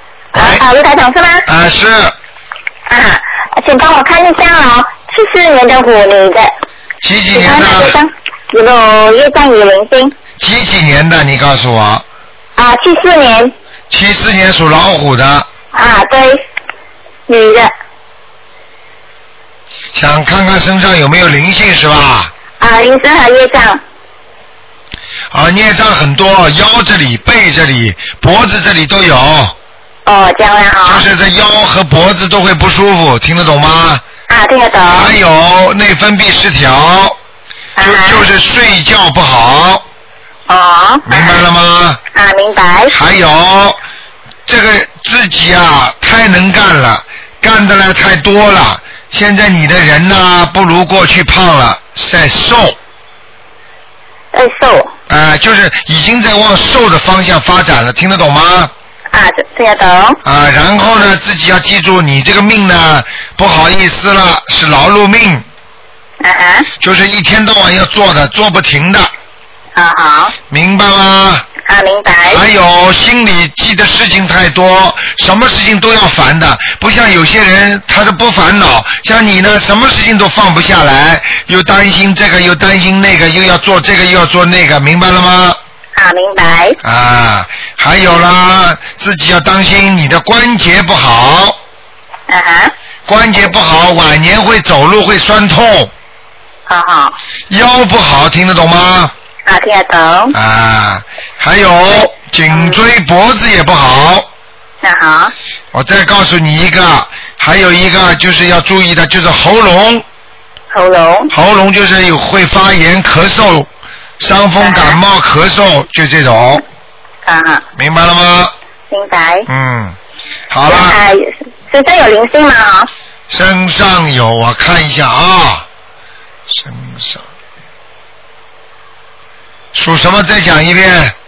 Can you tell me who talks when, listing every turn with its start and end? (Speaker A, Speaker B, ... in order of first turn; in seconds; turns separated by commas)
Speaker A: 0.3-0.7, Speaker B: 0.3-1.4, Speaker A: 1.5-2.1, Speaker B: 2.9-6.5, Speaker A: 7.0-8.0, Speaker B: 7.3-10.1, Speaker A: 10.4-12.1, Speaker B: 12.6-13.5, Speaker A: 13.9-15.5, Speaker B: 15.7-16.4, Speaker B: 17.3-17.7, Speaker A: 19.9-22.3, Speaker B: 22.6-23.8, Speaker A: 25.3-29.6, Speaker B: 30.1-31.1, Speaker A: 30.8-34.0, Speaker B: 34.3-35.1, Speaker A: 34.9-37.2, Speaker B: 37.8-38.2, Speaker A: 37.8-39.8, Speaker B: 40.5-41.4, Speaker A: 41.1-42.0, Speaker B: 42.1-42.9, Speaker A: 42.9-43.8, Speaker A: 44.5-52.8, Speaker B: 54.3-54.9, Speaker A: 55.1-58.7, Speaker B: 59.1-60.2, Speaker A: 60.2-65.5, Speaker B: 66.2-66.7, Speaker A: 66.8-69.1, Speaker B: 69.8-70.3, Speaker A: 70.5-71.5, Speaker B: 71.7-72.4, Speaker A: 72.3-85.6, Speaker B: 86.0-86.8, Speaker A: 86.8-91.6, Speaker B: 92.3-92.7, Speaker A: 93.1-95.9, Speaker B: 96.7-97.2, Speaker A: 97.5-99.1, Speaker B: 99.5-100.3, Speaker A: 100.3-104.3, Speaker B: 101.9-102.8, Speaker B: 104.8-105.3, Speaker A: 105.7-110.0, Speaker B: 110.7-111.3, Speaker A: 111.3-113.7, Speaker A: 114.2-116.6, Speaker B: 114.6-115.0, Speaker B: 117.3-117.6, Speaker A: 117.8-118.5, Speaker B: 118.9-119.5, Speaker A: 119.5-120.0, Speaker A: 120.5-121.0, Speaker B: 120.7-122.9, Speaker A: 123.3-125.7, Speaker A: 126.5-127.3, Speaker A: 129.7-131.1